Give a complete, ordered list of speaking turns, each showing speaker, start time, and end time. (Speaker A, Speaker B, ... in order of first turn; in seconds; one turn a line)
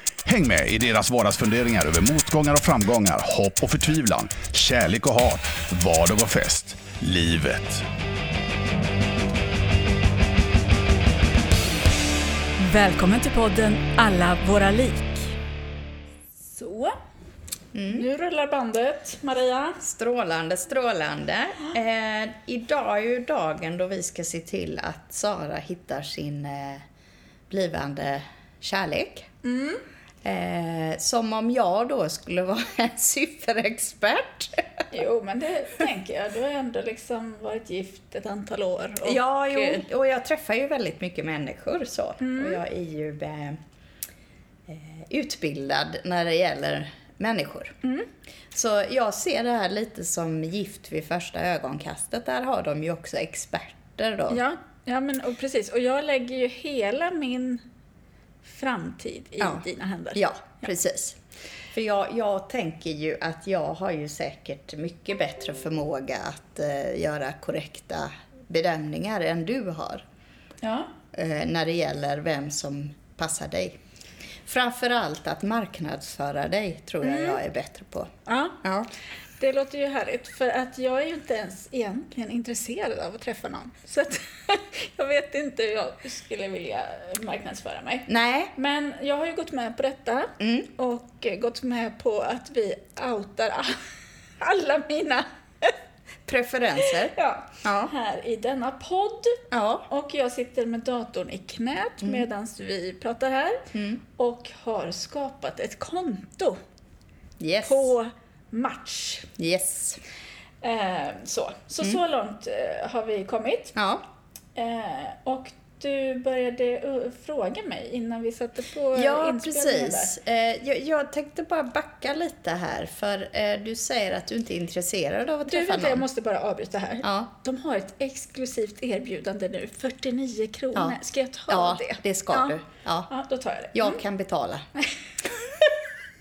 Speaker A: 0.2-7.8
Speaker B: 12.6-15.3
Speaker B: 16.3-16.9
Speaker C: 17.7-18.1
Speaker B: 17.9-19.8
Speaker C: 19.8-26.8
Speaker C: 27.5-29.3
Speaker B: 29.4-29.8
Speaker C: 30.2-34.8
Speaker B: 34.9-39.8
Speaker C: 39.0-43.6
Speaker B: 42.2-42.6
Speaker C: 44.7-47.8
Speaker B: 47.8-48.1
Speaker C: 48.5-54.4
Speaker B: 54.3-57.6
Speaker B: 58.4-60.7
Speaker C: 59.4-61.2
Speaker C: 61.7-70.0
Speaker B: 70.6-70.9
Speaker C: 71.1-73.8
Speaker C: 74.5-78.1
Speaker B: 77.0-77.4
Speaker B: 78.2-78.6
Speaker C: 78.6-78.9
Speaker B: 79.4-93.8
Speaker C: 88.1-88.5
Speaker C: 90.4-90.7
Speaker B: 94.4-95.7
Speaker C: 96.2-97.9
Speaker B: 96.8-106.6
Speaker C: 99.5-99.9
Speaker C: 103.7-104.0
Speaker C: 107.4-107.9
Speaker B: 107.6-109.3
Speaker C: 109.4-110.0
Speaker B: 110.6-113.7
Speaker C: 113.8-114.0
Speaker B: 114.5-120.1
Speaker C: 118.9-126.0
Speaker B: 125.4-134.0
Speaker C: 127.0-127.3
Speaker C: 130.7-133.1
Speaker C: 133.7-134.7
Speaker B: 134.8-135.8